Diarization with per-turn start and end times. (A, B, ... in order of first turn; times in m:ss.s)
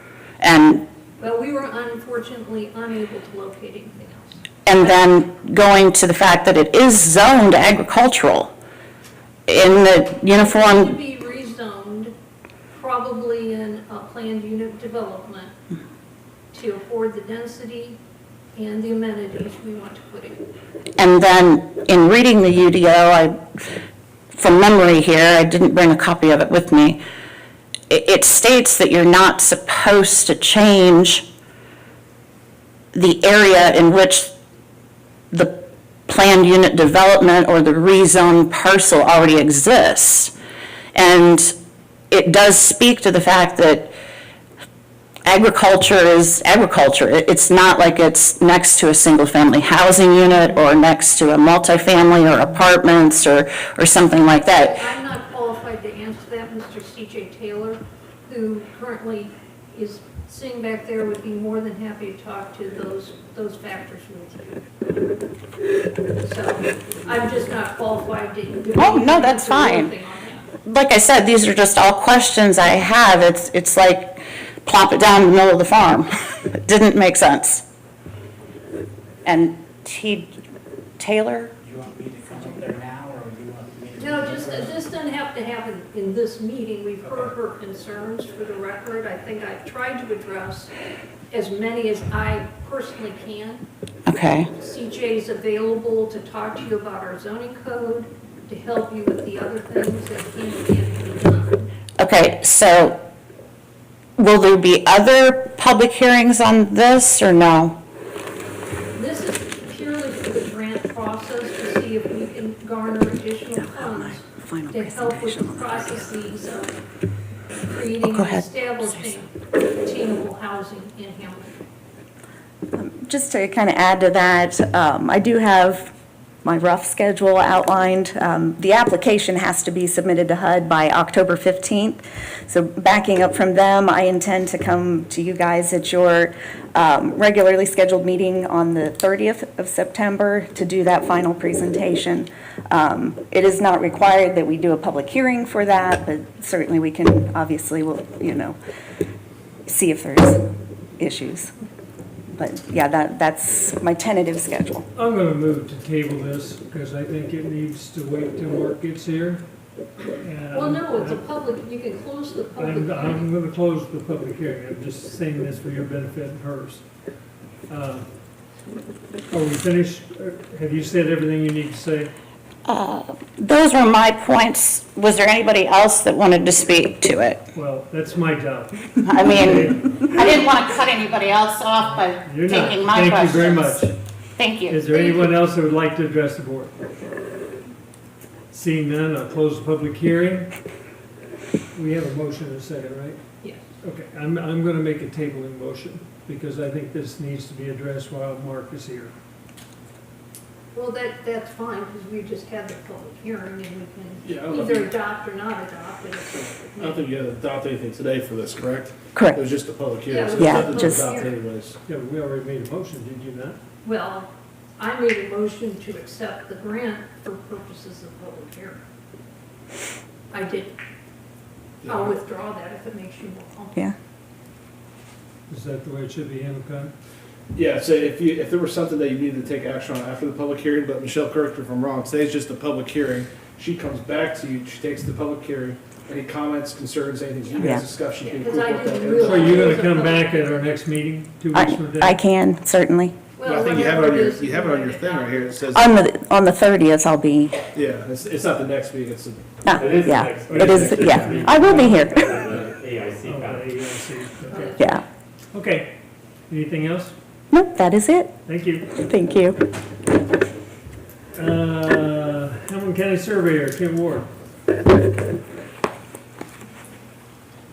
0:00.4-0:00.8 A
0:01.2-0:04.9 B
0:04.6-0:08.5 A
0:09.5-0:11.0 A
0:10.3-0:12.1 B
0:12.7-0:15.5 B
0:16.5-0:18.0 B
0:18.5-0:20.4 B
0:21.0-0:23.4 A
0:24.3-0:27.0 A
0:27.9-0:31.2 A
0:32.9-0:34.3 A
0:35.3-0:40.3 A
0:40.9-0:41.5 A
0:42.1-0:43.9 A
0:45.2-0:54.8 A
0:54.5-1:04.6 B
1:06.2-1:10.5 B
1:08.7-1:09.9 A
1:10.6-1:17.6 A
1:19.2-1:20.4 A
1:21.0-1:21.5 A
1:21.6-1:24.8 C
1:24.0-1:30.7 B
1:31.3-1:33.6 B
1:34.1-1:34.5 A
1:34.5-1:41.7 B
1:42.0-1:43.0 A
1:44.2-1:47.8 A
1:48.9-1:56.7 B
1:53.6-1:56.0 A
1:57.7-2:01.6 B
1:58.0-1:59.2 A
2:02.7-2:05.9 D
2:06.4-2:28.6 D
2:29.6-2:30.4 D
2:31.0-2:31.5 D
2:32.4-2:34.8 D
2:35.0-2:39.4 E
2:40.1-2:41.2 E
2:40.5-2:43.2 B
2:42.6-2:46.8 E
2:47.7-2:48.0 E
2:49.3-2:52.1 E
2:52.7-2:57.4 A
2:57.5-2:59.9 E
2:59.0-3:03.8 A
3:02.2-3:03.9 E
3:04.4-3:05.0 A
3:04.7-3:06.7 E
3:08.5-3:10.5 E
3:11.7-3:13.2 E
3:13.8-3:19.1 E
3:20.7-3:27.3 B
3:24.3-3:24.9 F
3:26.8-3:31.8 F
3:30.0-3:31.5 B
3:30.4-3:31.1 D
3:31.8-3:33.6 E
3:33.8-3:38.8 B
3:40.3-3:40.8 B
3:41.8-3:43.8 B
3:41.8-3:42.1 F
3:45.5-3:46.9 E
3:47.5-3:59.4 F
3:57.6-4:00.6 B
3:59.2-4:02.2 E
4:01.5-4:03.2 D
4:03.4-4:05.8 B
4:03.4-4:05.9 F
4:05.7-4:07.6 D
4:07.8-4:09.4 F
4:09.6-4:12.4 D
4:09.6-4:13.9 G
4:10.4-4:12.1 E
4:13.2-4:14.8 E
4:14.5-4:15.0 B
4:15.5-4:15.9 E
4:16.5-4:17.1 E
4:17.5-4:18.3 D
4:18.4-4:18.9 E
4:18.9-4:19.6 D
4:21.3-4:24.3 E